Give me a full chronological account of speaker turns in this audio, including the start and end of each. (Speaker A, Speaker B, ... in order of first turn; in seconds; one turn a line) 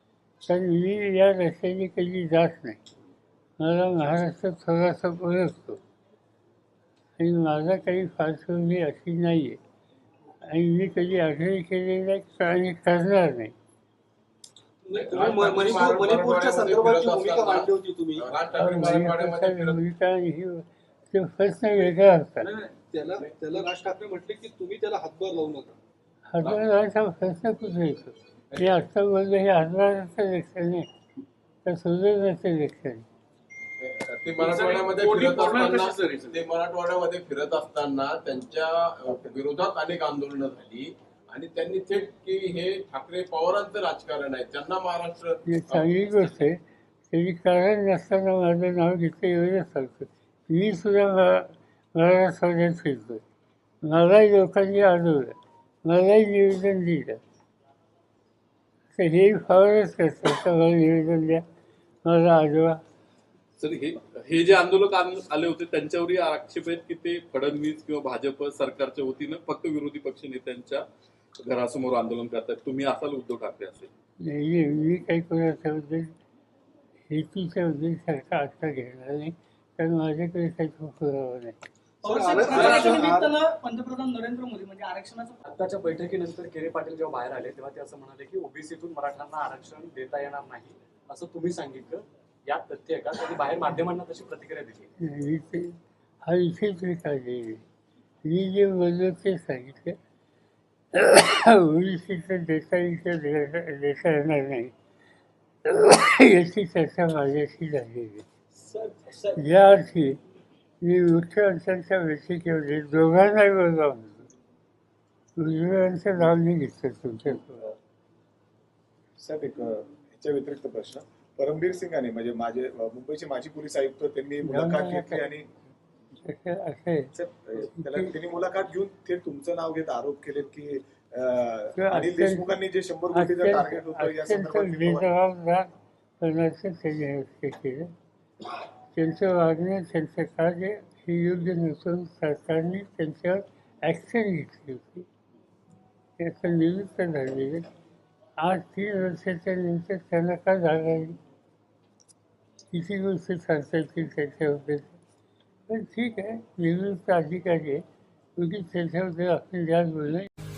Speaker A: 0.5-2.8
Speaker A: 3.6-5.8
Speaker A: 7.2-9.6
Speaker A: 10.5-13.5
Speaker B: 14.9-18.3
Speaker C: 14.9-19.8
Speaker A: 18.6-22.5
Speaker B: 22.5-25.8
Speaker A: 26.3-30.9
Speaker A: 31.6-33.0
Speaker C: 33.8-46.3
Speaker D: 34.4-36.2
Speaker A: 45.5-46.6
Speaker A: 47.1-53.2
Speaker A: 53.8-57.2
Speaker A: 58.9-61.4
Speaker A: 62.0-62.8
Speaker E: 63.6-70.8
Speaker E: 71.4-73.9
Speaker A: 74.2-76.1
Speaker A: 77.1-81.6
Speaker B: 82.0-83.4
Speaker F: 82.0-85.4
Speaker D: 85.5-94.9
Speaker A: 95.0-97.6
Speaker A: 98.2-100.0
Speaker A: 100.9-104.7
Speaker A: 105.7-108.3
Speaker D: 108.7-109.1
Speaker A: 109.3-110.2
Speaker A: 110.8-114.3
Speaker A: 115.4-117.7
Speaker G: 119.2-125.5
Speaker A: 124.5-125.3
Speaker A: 126.3-128.1
Speaker G: 127.1-135.1
Speaker A: 131.8-132.5
Speaker A: 133.1-137.9
Speaker A: 138.9-145.1
Speaker A: 146.2-147.7
Speaker A: 148.4-151.2
Speaker A: 152.7-155.0
Speaker A: 155.7-157.8
Speaker A: 158.4-160.3